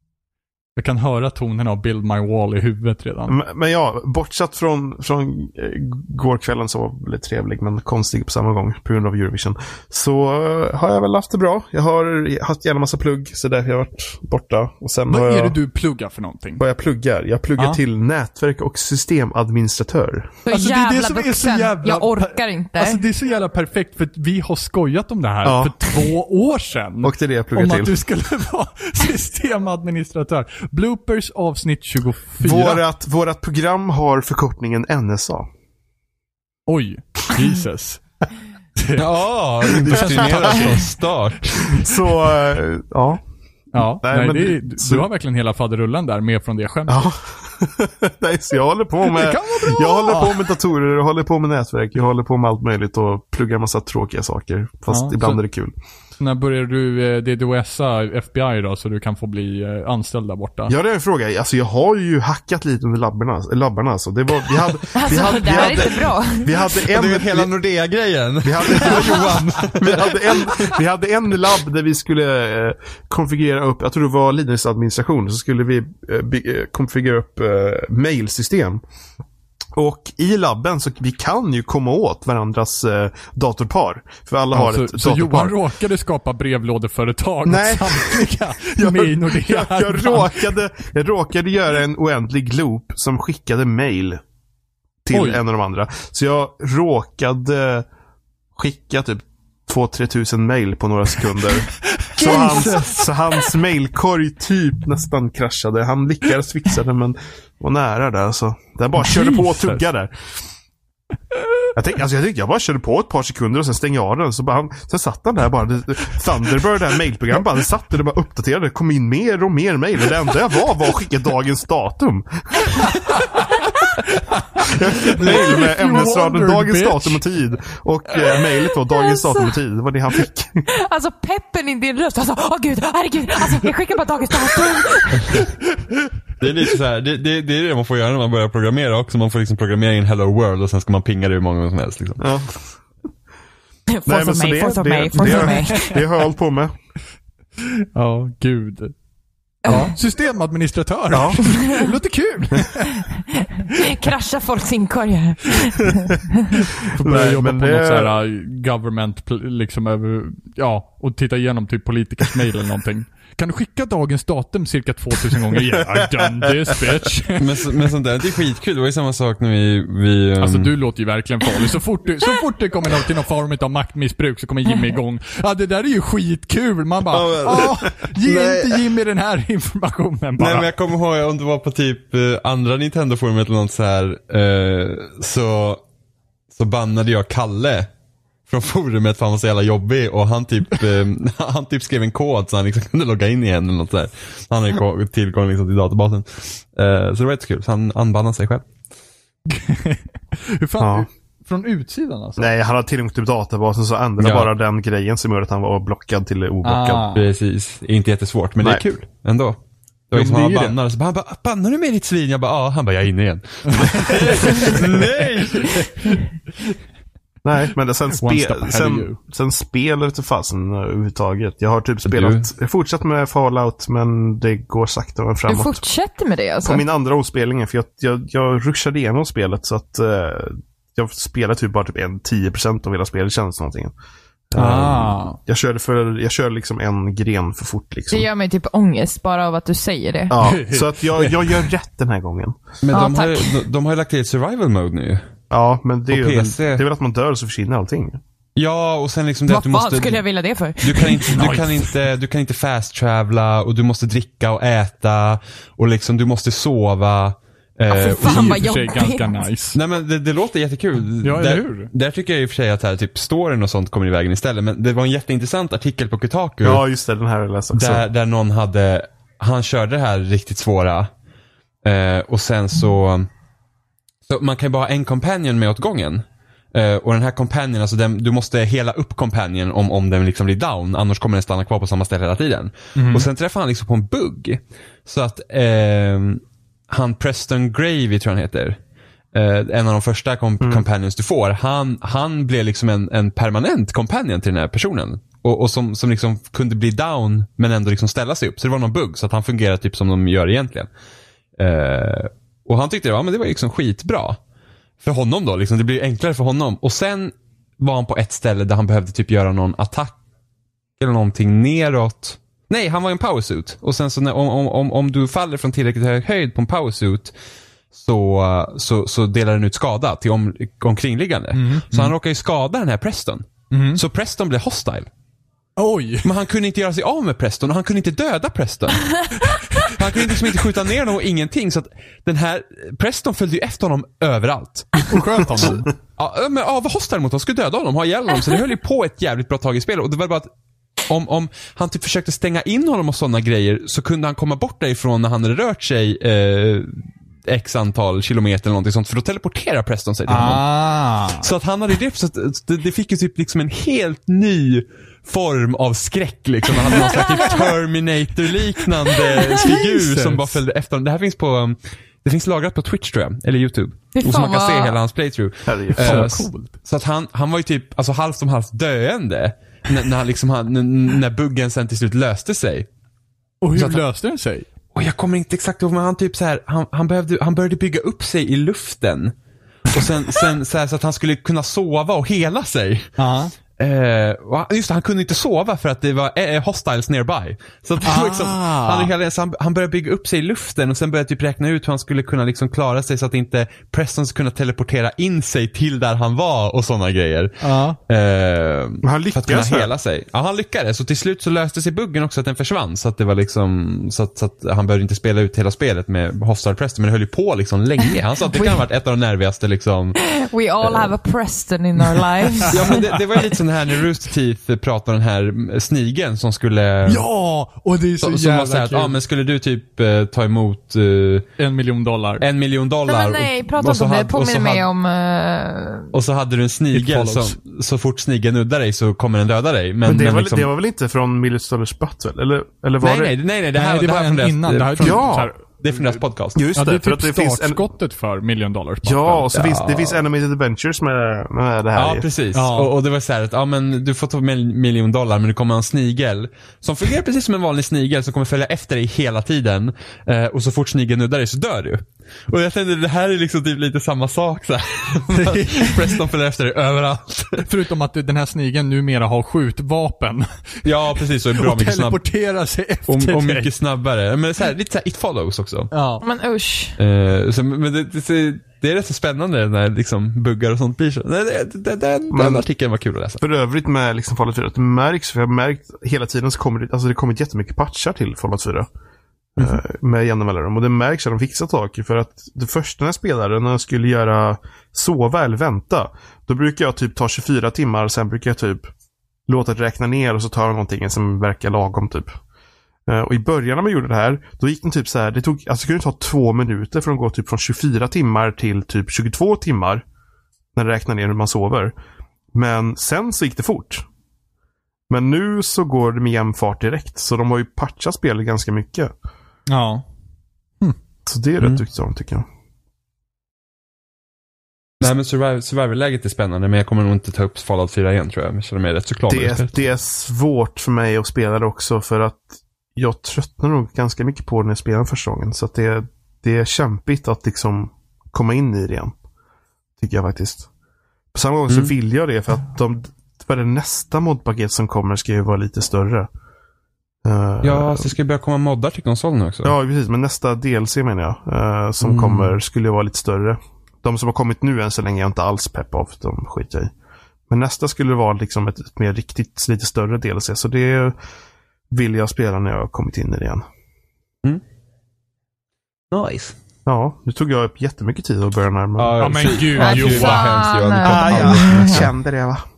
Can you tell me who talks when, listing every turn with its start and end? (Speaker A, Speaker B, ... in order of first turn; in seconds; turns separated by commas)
Speaker A: 0.8-3.3, Speaker B: 3.3-15.6, Speaker A: 15.1-16.6, Speaker B: 16.6-20.4, Speaker C: 20.4-23.0, Speaker A: 20.5-32.8, Speaker B: 25.4-25.8, Speaker B: 27.0-27.9, Speaker B: 32.4-35.5, Speaker A: 36.7-38.0, Speaker A: 38.8-39.0, Speaker D: 39.0-41.7, Speaker A: 39.6-40.8, Speaker B: 39.8-40.8, Speaker B: 41.8-43.2, Speaker A: 43.7-47.1, Speaker B: 44.0-45.0, Speaker B: 46.9-55.7, Speaker A: 49.1-50.5, Speaker A: 54.9-55.4, Speaker A: 56.2-60.8, Speaker B: 60.7-67.5, Speaker C: 64.9-66.7, Speaker D: 65.4-66.0, Speaker D: 66.7-70.7, Speaker B: 68.4-78.8, Speaker A: 69.0-69.6, Speaker B: 79.7-85.6, Speaker A: 84.5-90.5, Speaker B: 87.5-94.2, Speaker B: 95.0-97.8, Speaker A: 95.1-95.4, Speaker B: 98.5-110.1, Speaker A: 102.0-102.9, Speaker D: 102.2-103.0, Speaker A: 109.0-109.8, Speaker B: 111.7-123.5, Speaker A: 122.8-127.2, Speaker B: 124.6-130.7, Speaker C: 128.9-129.5, Speaker C: 130.7-135.5, Speaker D: 136.4-142.2, Speaker B: 142.2-142.6, Speaker C: 143.9-146.0, Speaker B: 144.1-146.7, Speaker A: 145.3-145.9, Speaker A: 147.9-148.9, Speaker C: 149.6-149.9, Speaker A: 149.7-153.8, Speaker B: 151.1-151.5, Speaker C: 151.5-151.8, Speaker C: 153.6-156.6, Speaker A: 156.5-167.7, Speaker B: 156.8-158.1, Speaker B: 166.1-166.5, Speaker D: 167.4-170.7, Speaker A: 170.4-180.7, Speaker D: 177.1-178.8, Speaker D: 180.4-185.8, Speaker D: 186.5-187.9, Speaker D: 188.5-198.7, Speaker A: 199.5-202.5, Speaker B: 200.8-201.1, Speaker B: 202.4-207.1, Speaker D: 204.2-204.5, Speaker A: 206.6-207.3, Speaker D: 207.1-209.6, Speaker D: 210.1-215.9, Speaker A: 210.1-210.8, Speaker A: 213.7-216.2, Speaker B: 217.4-225.8, Speaker A: 218.2-219.2, Speaker D: 222.1-222.5, Speaker C: 225.5-226.8, Speaker B: 226.6-233.9, Speaker B: 234.5-238.3, Speaker A: 234.5-235.4, Speaker C: 238.1-240.3, Speaker B: 240.3-242.6, Speaker A: 240.4-241.7, Speaker D: 242.8-245.2, Speaker C: 242.9-243.6, Speaker B: 245.5-248.2, Speaker D: 246.1-246.8, Speaker D: 248.6-250.2, Speaker C: 249.5-251.7, Speaker D: 250.8-258.6, Speaker A: 251.3-251.7, Speaker C: 257.9-259.4, Speaker A: 258.2-259.8, Speaker D: 259.7-266.8, Speaker A: 261.2-261.9, Speaker B: 266.6-268.0, Speaker D: 267.7-271.1, Speaker D: 271.8-273.3, Speaker D: 274.2-288.8, Speaker A: 282.9-283.3, Speaker D: 289.3-300.9, Speaker D: 301.6-304.4, Speaker D: 305.0-310.1, Speaker D: 311.0-317.3, Speaker D: 317.9-325.1, Speaker A: 321.5-322.1, Speaker A: 323.7-324.0, Speaker A: 325.8-326.3, Speaker D: 326.2-340.5, Speaker A: 329.4-330.4, Speaker A: 335.1-335.9, Speaker D: 341.1-350.6, Speaker A: 350.3-351.5, Speaker D: 351.4-372.9, Speaker A: 359.1-360.6, Speaker C: 364.1-365.0, Speaker B: 365.6-366.3, Speaker A: 365.9-366.7, Speaker A: 373.6-374.7, Speaker D: 373.7-374.0, Speaker D: 374.9-379.4, Speaker D: 379.9-383.1, Speaker A: 383.2-383.5, Speaker D: 383.8-410.2, Speaker A: 388.0-389.1, Speaker A: 397.6-398.0, Speaker B: 399.0-399.9, Speaker C: 408.0-408.8, Speaker C: 410.2-413.5, Speaker D: 410.8-411.1, Speaker D: 412.7-417.2, Speaker A: 417.1-419.2, Speaker D: 418.2-421.5, Speaker A: 421.6-422.4, Speaker D: 422.4-424.9, Speaker C: 423.1-426.1, Speaker D: 426.1-430.7, Speaker A: 426.9-427.6, Speaker B: 430.0-433.3, Speaker D: 433.0-436.6, Speaker A: 433.7-436.2, Speaker B: 435.0-435.5, Speaker B: 436.5-437.8, Speaker A: 436.7-439.5, Speaker B: 439.0-442.3, Speaker D: 439.5-440.2, Speaker D: 441.9-457.7, Speaker A: 442.5-442.9, Speaker A: 455.3-456.1, Speaker A: 457.6-463.7, Speaker D: 460.8-462.2, Speaker D: 463.1-465.9, Speaker A: 465.9-466.2, Speaker C: 466.2-467.0, Speaker D: 467.0-473.4, Speaker B: 472.3-472.6, Speaker B: 473.4-478.9, Speaker B: 479.6-488.9, Speaker B: 489.5-492.3, Speaker B: 493.1-500.0, Speaker B: 500.7-501.9, Speaker B: 502.5-504.0, Speaker B: 505.1-509.1, Speaker A: 509.7-510.1, Speaker B: 511.2-512.4, Speaker D: 515.0-519.8, Speaker B: 519.3-529.1, Speaker B: 530.0-530.7, Speaker B: 531.3-536.3, Speaker B: 537.2-538.1, Speaker D: 537.6-539.7, Speaker B: 539.6-546.9, Speaker D: 542.0-542.5, Speaker B: 547.5-551.1, Speaker B: 551.9-553.6, Speaker D: 556.1-556.5, Speaker B: 556.9-559.5, Speaker D: 559.0-562.1, Speaker A: 559.2-560.5, Speaker C: 559.8-562.1, Speaker B: 561.0-562.6